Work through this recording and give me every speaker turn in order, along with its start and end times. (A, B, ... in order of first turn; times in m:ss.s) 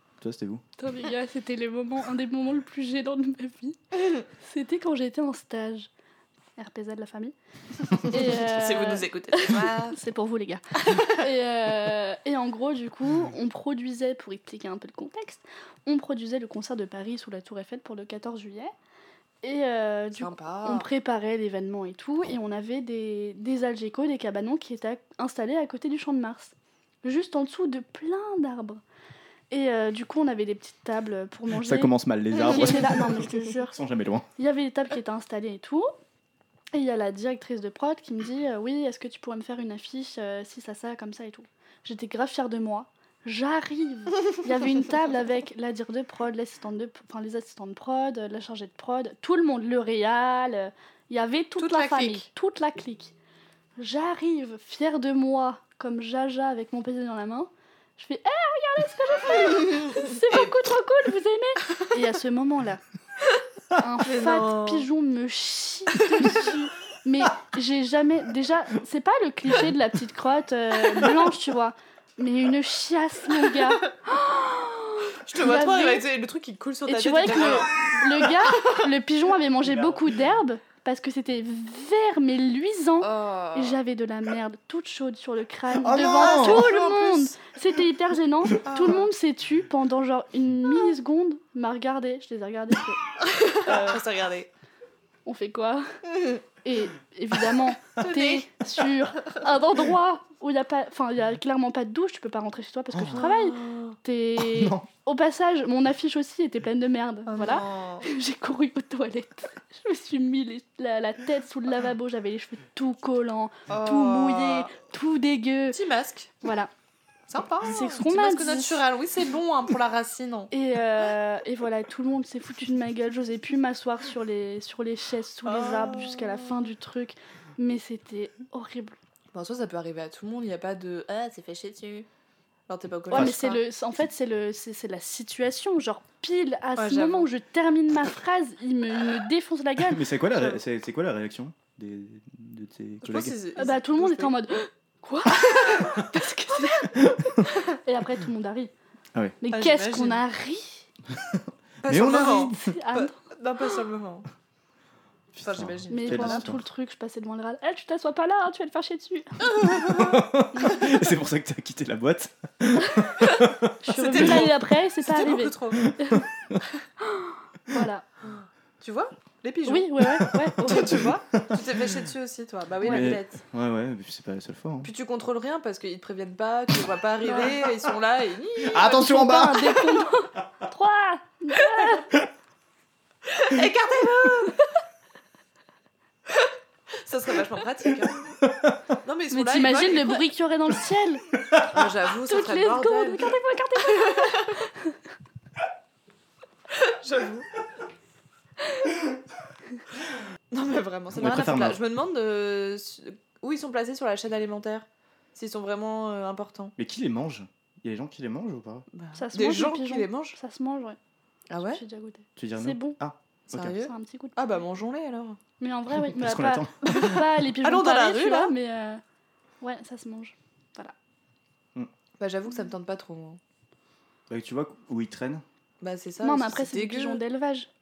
0:00.2-0:00.6 A
0:00.8-0:05.9 B
0:06.6-0:07.3 B
0:07.9-0:10.0 C
0:07.9-0:18.7 B
0:10.8-0:11.2 C
0:19.4-0:28.8 B
0:20.2-0:20.9 C
0:29.5-0:33.8 B
0:31.5-0:34.3 A
0:34.4-0:35.9 B
0:36.7-0:53.1 B
0:51.6-0:52.3 C
0:53.8-1:02.8 B
0:59.6-1:00.5 C
1:03.8-1:16.0 B
1:04.0-1:04.8 C
1:06.0-1:06.5 C
1:13.4-1:13.8 C
1:15.3-1:18.9 C
1:16.9-1:33.0 B
1:23.0-1:23.8 C
1:25.7-1:26.7 A
1:26.2-1:27.3 C
1:28.6-1:29.1 C
1:33.2-1:34.5 C
1:35.2-1:35.9 B
1:36.6-1:55.8 B
1:38.0-1:39.4 C
1:42.9-1:43.2 A
1:43.1-1:44.0 C
1:44.4-1:44.9 A
1:47.3-1:48.0 C
1:53.7-1:54.7 C
1:55.7-1:56.3 C
1:56.4-1:56.7 B
1:57.3-2:00.5 C
1:57.6-1:58.8 B
2:00.5-2:09.0 B
2:05.4-2:06.6 C
2:09.3-2:12.1 C
2:12.7-2:13.6 C
2:13.1-2:13.4 A
2:13.1-2:20.0 B
2:16.8-2:17.3 C
2:19.8-2:23.4 A
2:20.3-2:20.6 C
2:23.0-2:24.3 C
2:23.6-2:28.7 B
2:25.4-2:26.0 C
2:26.6-2:26.8 C
2:27.0-2:27.4 A
2:29.4-2:30.9 B
2:29.5-2:30.2 C
2:31.1-2:32.6 A
2:31.8-2:34.2 C
2:32.5-2:33.2 B
2:35.3-2:36.6 A
2:35.4-2:36.5 C
2:35.9-2:39.5 B
2:39.5-2:40.2 C
2:39.6-2:44.4 A
2:40.5-2:40.9 B
2:42.8-2:46.2 B
2:43.9-2:45.9 C
2:45.8-2:46.6 A
2:47.0-2:48.0 B
2:48.2-2:50.0 C
2:49.6-2:51.0 B
2:50.0-2:52.0 A
2:50.6-2:53.4 C
2:52.8-2:53.2 B
2:52.8-2:54.9 A
2:54.8-2:59.1 C
2:57.2-2:57.5 B
2:58.6-3:00.0 A
2:58.8-3:02.1 B
3:03.4-3:04.6 C
3:07.0-3:08.3 C
3:08.4-3:08.8 A
3:09.0-3:10.3 C
3:09.3-3:11.2 B
3:11.7-3:14.6 C
3:12.2-3:15.0 B
3:16.7-3:17.5 C
3:20.5-3:26.7 C
3:21.1-3:21.8 A
3:26.8-3:28.9 A
3:28.9-3:30.4 C
3:29.1-3:31.0 B
3:31.5-3:31.8 C
3:31.6-3:33.0 B
3:32.4-3:33.8 A
3:33.5-3:35.4 C
3:33.7-3:34.6 B
3:35.6-3:39.0 B
3:35.9-3:37.3 A
3:36.9-3:38.5 C
3:39.6-3:40.9 B
3:42.2-3:43.4 C
3:44.3-3:45.4 A
3:45.8-3:47.2 C
3:46.2-3:47.7 B